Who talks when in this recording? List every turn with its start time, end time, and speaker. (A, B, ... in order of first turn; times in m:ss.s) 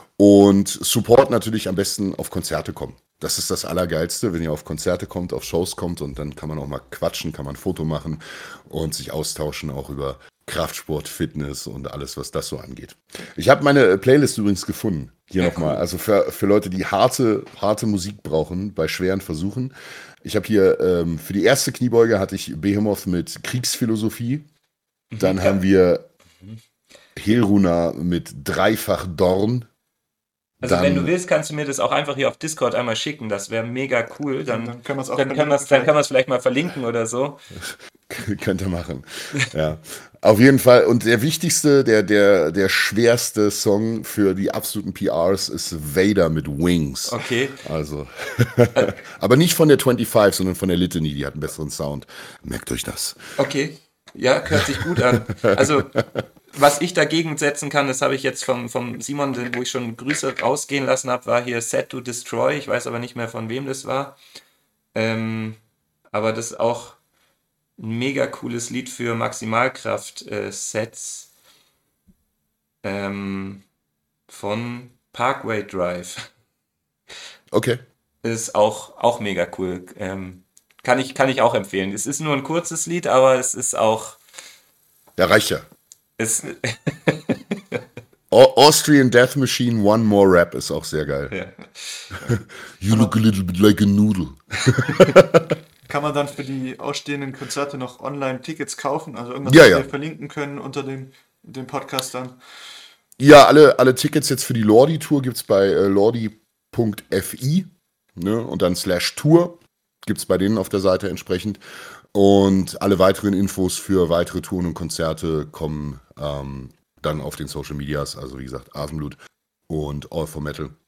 0:00.2-0:24.5 A
0:15.4-0:15.8 B
0:25.1-0:25.6 B
0:25.2-0:26.1 A
0:27.2-0:29.7 A
0:30.6-0:31.1 A
0:30.6-0:37.4 B
0:34.4-0:35.9 C
0:38.1-0:53.2 A
0:47.1-0:47.6 B
0:53.4-0:56.0 B
0:54.8-0:56.0 A
0:56.5-1:04.2 B
1:04.9-1:05.6 B
1:06.1-1:07.0 B
1:07.8-1:11.3 B
1:12.8-1:13.6 B
1:14.3-1:16.3 B
1:17.5-1:17.8 A
1:18.2-1:24.2 B
1:25.2-1:25.6 A
1:26.2-1:27.8 B
1:28.3-1:31.4 A
1:31.3-1:32.1 B
1:32.1-1:35.5 A
1:35.9-1:42.4 C
1:39.4-1:39.9 A
1:43.2-1:51.6 A
1:52.1-1:59.2 A
1:59.7-2:00.8 A